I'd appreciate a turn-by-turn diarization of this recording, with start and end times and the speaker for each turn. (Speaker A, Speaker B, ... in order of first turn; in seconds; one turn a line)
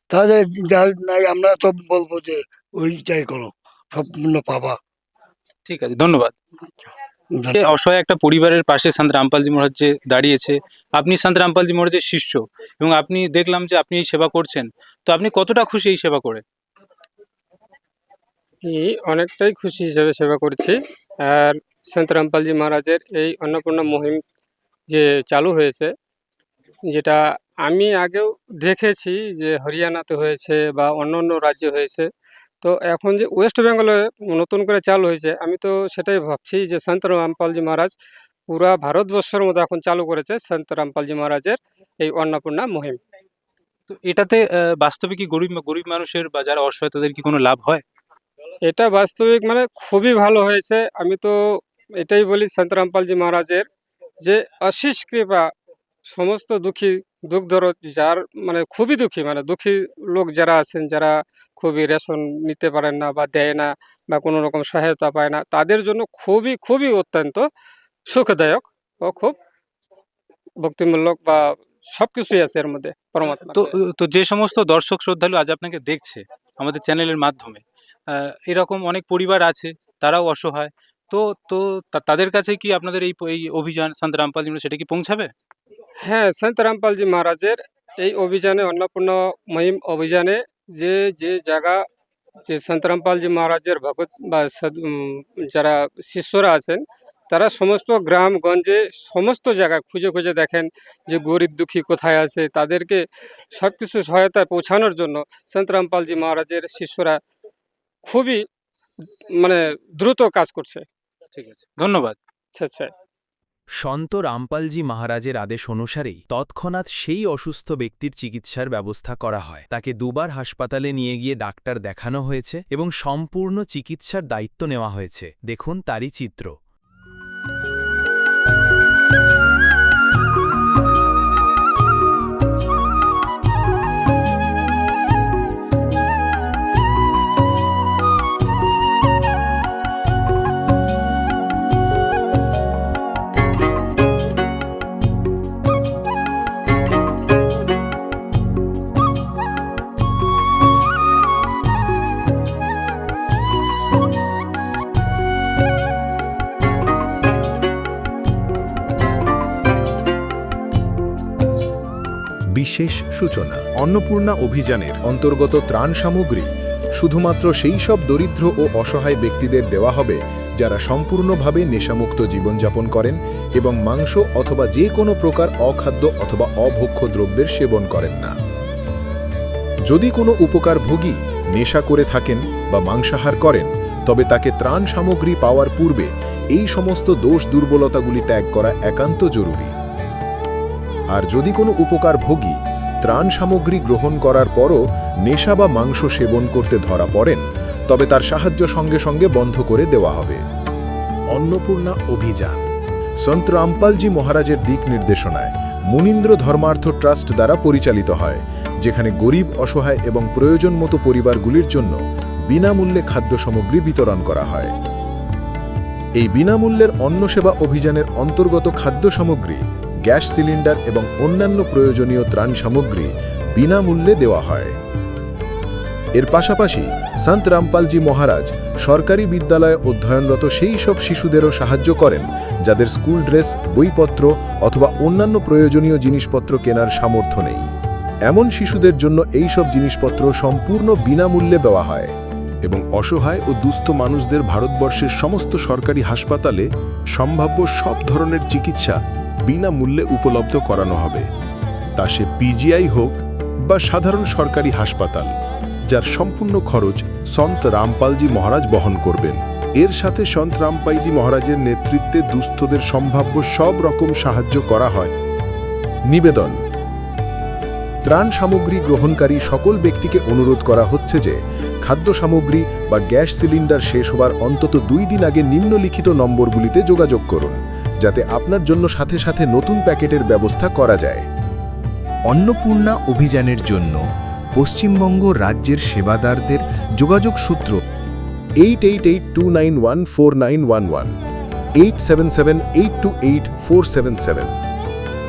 Speaker A: 0.1-4.8
Speaker B: 5.7-6.3
Speaker B: 7.5-16.4
Speaker C: 18.6-24.2
Speaker C: 24.9-25.9
Speaker C: 26.9-32.1
Speaker C: 32.6-38.0
Speaker C: 38.5-43.0
Speaker B: 43.9-47.8
Speaker C: 48.6-53.7
Speaker C: 54.2-55.5
Speaker C: 56.1-67.5
Speaker C: 68.1-69.3
Speaker C: 70.6-73.7
Speaker B: 73.5-85.3
Speaker C: 86.0-91.8
Speaker C: 92.5-107.2
Speaker C: 108.0-108.4
Speaker C: 109.4-110.8
Speaker B: 111.3-112.2
Speaker C: 112.6-112.9
Speaker D: 113.8-126.5
Speaker E: 162.5-178.4
Speaker E: 179.9-189.7
Speaker E: 191.1-200.4
Speaker E: 201.3-202.7
Speaker E: 203.2-214.7
Speaker E: 216.2-224.8
Speaker E: 226.2-237.7
Speaker E: 238.3-251.3
Speaker E: 252.0-255.3
Speaker E: 255.9-265.1
Speaker E: 266.1-266.6
Speaker E: 268.1-281.3
Speaker E: 282.3-284.0
Speaker E: 284.5-287.8
Speaker E: 288.6-291.2
Speaker E: 291.8-294.5